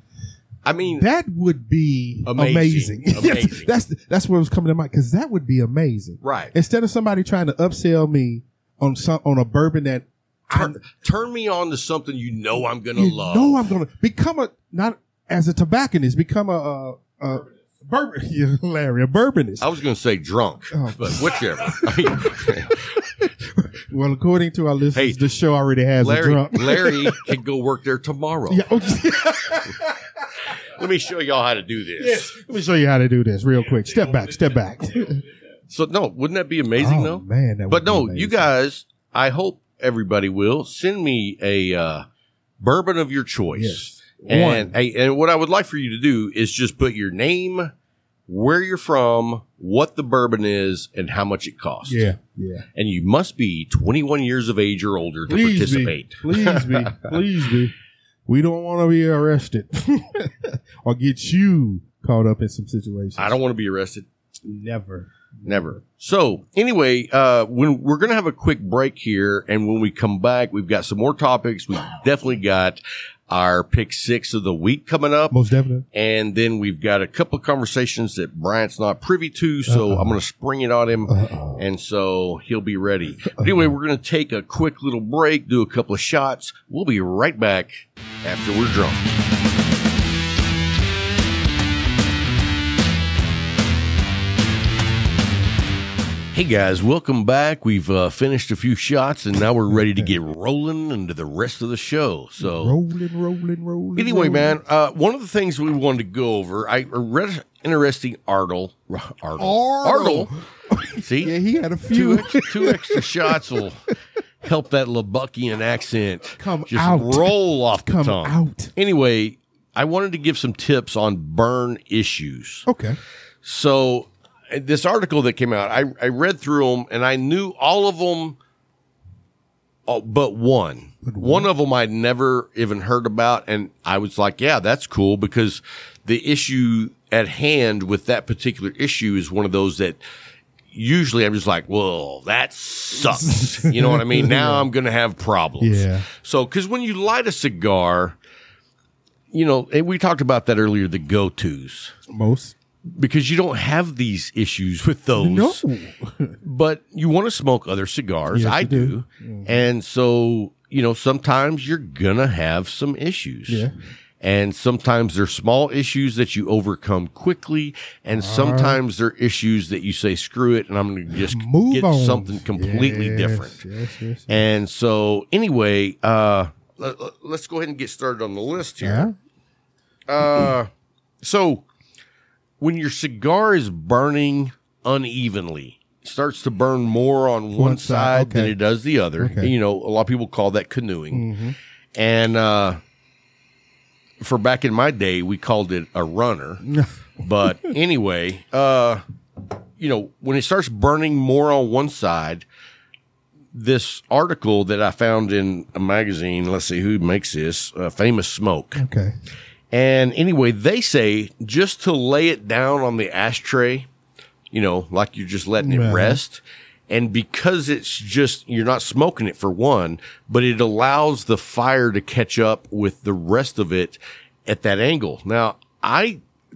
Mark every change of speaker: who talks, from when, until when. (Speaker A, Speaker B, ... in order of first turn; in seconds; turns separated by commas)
Speaker A: 0.7-1.1, Speaker B: 1.0-10.8, Speaker A: 2.2-3.7, Speaker A: 6.2-6.5, Speaker A: 10.5-13.7, Speaker B: 13.0-19.7, Speaker A: 19.6-22.8, Speaker B: 20.7-27.3, Speaker A: 24.9-25.2, Speaker A: 26.0-28.7, Speaker B: 28.5-30.0, Speaker A: 30.7-32.3, Speaker B: 32.0-35.2, Speaker A: 35.7-42.0, Speaker B: 36.8-38.5, Speaker A: 42.6-47.7, Speaker B: 43.5-44.7, Speaker A: 48.3-52.0, Speaker B: 51.9-52.7, Speaker A: 52.8-57.1, Speaker B: 55.3-57.8, Speaker B: 58.3-63.4, Speaker A: 63.2-64.1, Speaker B: 64.5-65.5, Speaker A: 65.5-75.4, Speaker B: 75.3-75.8, Speaker A: 75.9-89.0, Speaker B: 79.7-80.2, Speaker B: 81.1-81.6, Speaker A: 96.3-102.8, Speaker B: 102.4-104.6, Speaker A: 104.0-110.3, Speaker B: 109.4-113.6, Speaker A: 111.0-111.3, Speaker A: 111.9-113.8, Speaker A: 114.4-122.7, Speaker B: 116.4-118.7, Speaker B: 122.7-123.0, Speaker A: 123.4-128.4, Speaker A: 129.9-140.0, Speaker B: 131.0-131.5, Speaker A: 140.7-148.2, Speaker B: 143.1-144.7, Speaker B: 145.6-146.1, Speaker A: 149.3-151.9, Speaker B: 152.1-152.6, Speaker A: 152.9-155.6, Speaker B: 155.2-156.4, Speaker A: 156.4-163.7, Speaker B: 158.3-159.6, Speaker B: 163.5-163.7, Speaker A: 164.2-173.6, Speaker B: 168.1-168.8, Speaker B: 171.3-174.3, Speaker A: 174.3-179.1, Speaker B: 178.8-179.1, Speaker A: 180.1-180.7, Speaker A: 181.2-181.7, Speaker A: 182.6-191.3, Speaker B: 187.6-188.6, Speaker B: 189.2-189.5, Speaker B: 191.1-191.6, Speaker A: 191.9-192.8, Speaker A: 194.2-196.6, Speaker B: 196.7-196.9, Speaker A: 197.2-199.0, Speaker A: 199.8-202.5, Speaker A: 203.5-208.8, Speaker B: 208.8-209.1, Speaker A: 209.7-213.9, Speaker A: 214.5-226.2, Speaker B: 215.6-216.2